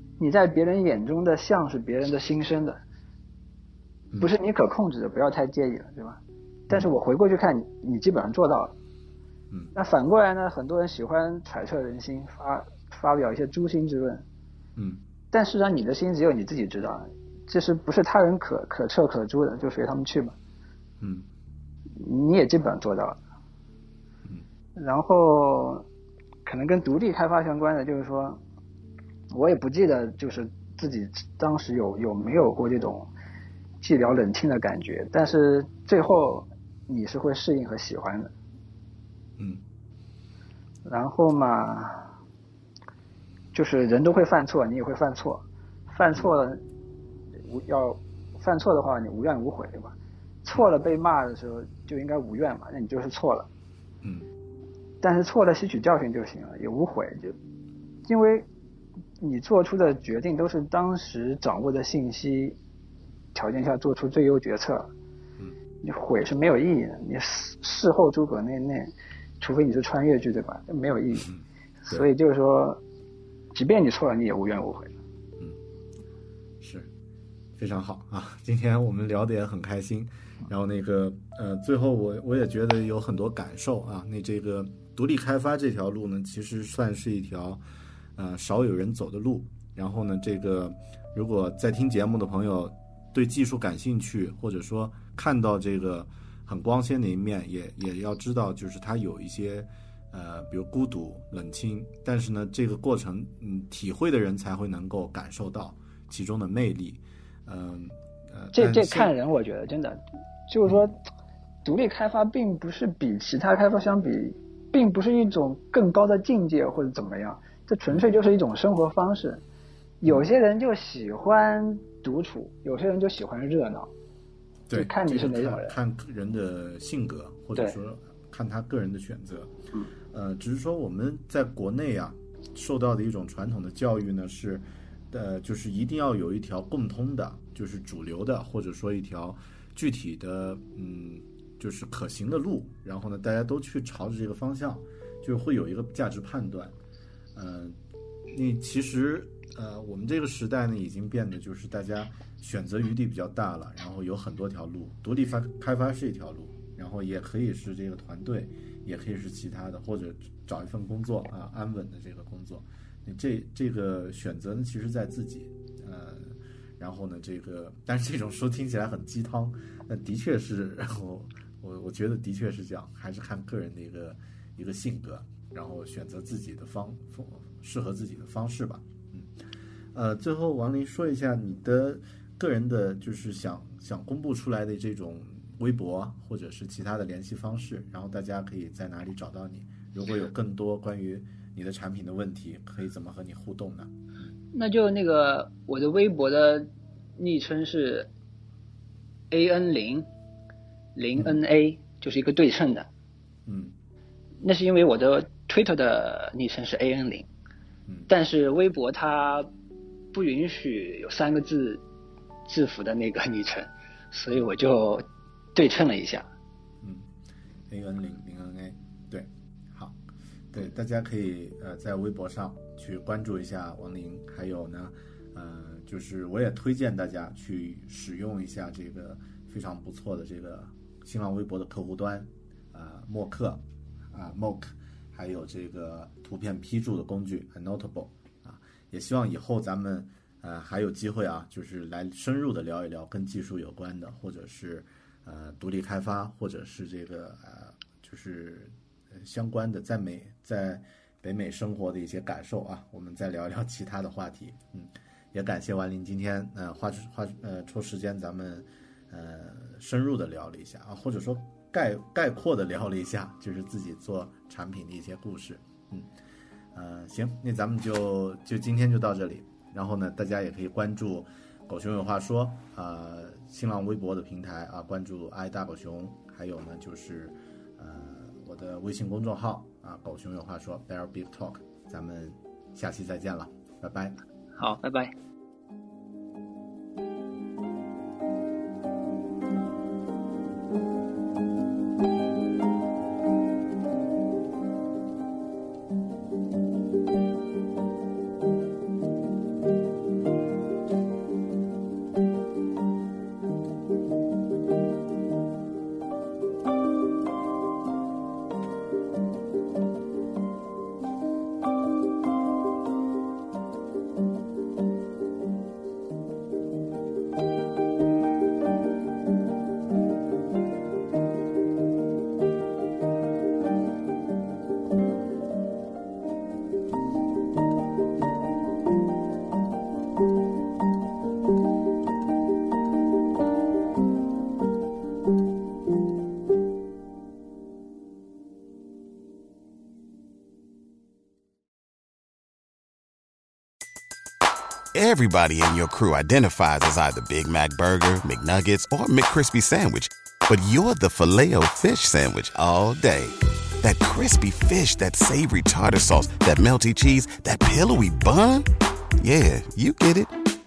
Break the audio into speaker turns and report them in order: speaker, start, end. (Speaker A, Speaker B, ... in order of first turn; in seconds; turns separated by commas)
Speaker A: 0.2-2.8, Speaker A: 4.2-8.7, Speaker A: 9.7-14.2, Speaker B: 14.8-15.0, Speaker A: 15.3-20.4, Speaker B: 21.0-21.3, Speaker A: 22.0-23.2, Speaker A: 24.8-25.9, Speaker A: 26.4-28.4, Speaker A: 29.3-33.1, Speaker A: 33.8-38.3, Speaker B: 39.4-39.6, Speaker A: 40.9-42.1, Speaker A: 43.5-46.6, Speaker A: 47.4-53.5, Speaker B: 54.0-54.3, Speaker A: 55.0-57.4, Speaker A: 58.0-58.5, Speaker A: 59.2-62.6, Speaker A: 63.3-64.9, Speaker A: 65.8-71.3, Speaker B: 71.2-72.1, Speaker A: 71.8-72.8, Speaker A: 73.5-74.9, Speaker B: 76.6-76.9, Speaker B: 77.6-87.6, Speaker B: 88.2-109.1, Speaker A: 108.5-111.0, Speaker A: 111.6-119.4, Speaker A: 120.0-123.9, Speaker B: 124.7-129.5, Speaker A: 124.7-125.8, Speaker B: 130.1-146.8, Speaker B: 147.3-147.8, Speaker B: 148.3-179.3, Speaker B: 179.9-194.3, Speaker A: 194.5-198.1, Speaker A: 199.3-200.1, Speaker A: 200.9-202.9, Speaker B: 203.4-203.8, Speaker A: 204.4-207.3, Speaker A: 208.1-209.5, Speaker A: 210.1-211.8, Speaker A: 212.4-216.3, Speaker B: 216.8-217.1, Speaker B: 217.7-220.0, Speaker B: 220.5-266.1, Speaker B: 266.7-284.2, Speaker A: 284.6-285.1, Speaker C: 344.9-358.7, Speaker C: 359.2-360.4